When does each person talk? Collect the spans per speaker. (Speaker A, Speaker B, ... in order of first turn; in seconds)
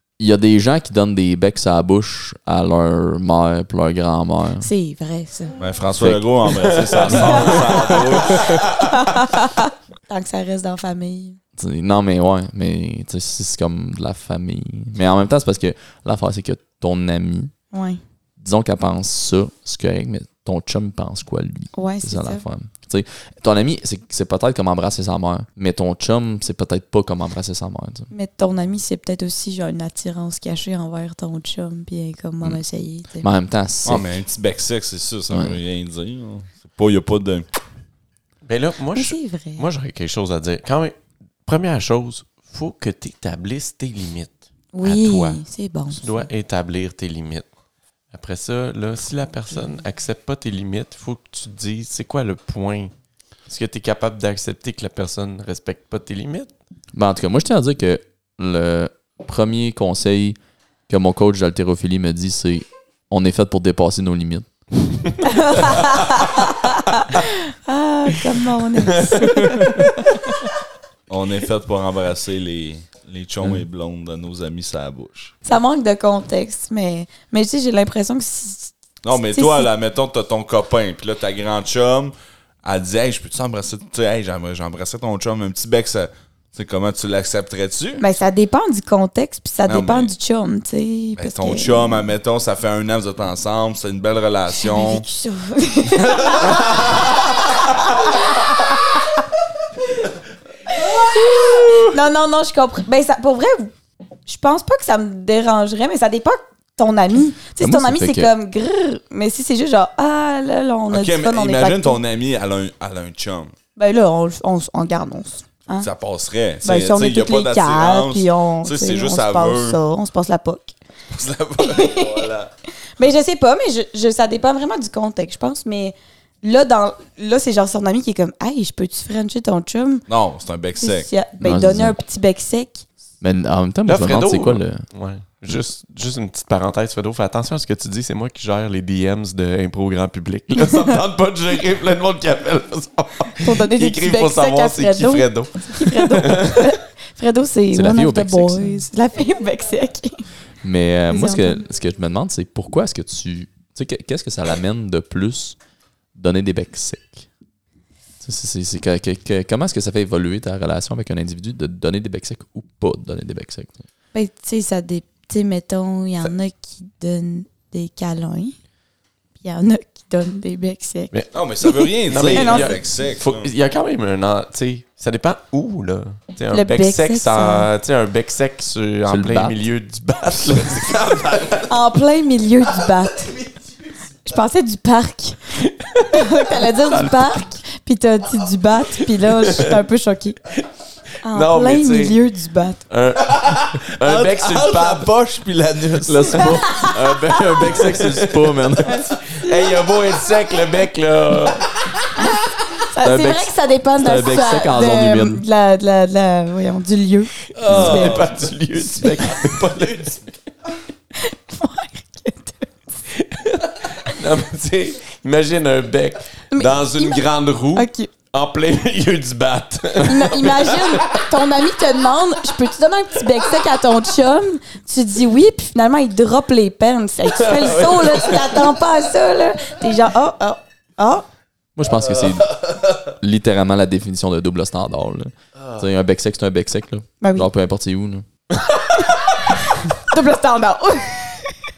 Speaker A: 0.2-4.7, 6.0-7.5, 11.6-17.5, 18.4-28.1, 33.2-34.1, 35.3-35.6, 56.9-60.4, 60.9-64.5, 107.6-108.3, 131.4-132.0, 133.2-134.8, 147.7-148.8, 150.6-155.6, 156.2-157.3, 158.2-163.8, 179.1-179.6, 196.0-199.1, 203.0-205.4, 231.8-238.3
Speaker B: 4.6-5.6, 7.1-11.4, 17.7-18.0, 21.7-22.4, 28.1-33.3, 39.0-39.7, 44.7-46.2, 65.2-70.2, 75.5-79.7, 88.0-92.0, 94.5-97.0, 97.6-98.8, 101.5-103.7, 104.3-112.0, 113.8-115.9, 116.6-120.7, 121.6-122.3, 123.0-130.1, 130.8-132.9, 143.4-150.2, 151.1-151.6, 164.1-168.6, 169.4-172.8, 176.5-177.7, 181.7-183.4, 184.2-185.5, 186.1-190.4, 191.2-192.8, 196.3-197.2, 198.9-199.7, 202.8-208.2, 211.2-212.8, 216.5-218.1, 220.0-231.3, 237.2-237.5, 239.1-241.6
Speaker C: 5.6-8.7, 33.9-37.5, 71.1-75.3, 79.0-88.1, 89.7-90.1, 91.2-95.0, 96.2-96.6, 110.9-113.5, 115.8-119.8, 121.1-122.5, 130.1-131.1, 171.3-173.5, 180.8-181.7, 193.4-196.6, 207.6-210.1, 232.2-232.8
Speaker D: 6.6-8.7, 38.4-47.5, 48.1-52.9, 53.5-56.5, 69.0-69.4, 133.9-146.7, 171.1-181.4, 185.7-186.2, 186.9-187.4, 189.3-189.8, 191.3-192.2, 192.9-195.1, 197.3-201.7, 207.6-210.3, 213.1-221.2, 227.4-228.5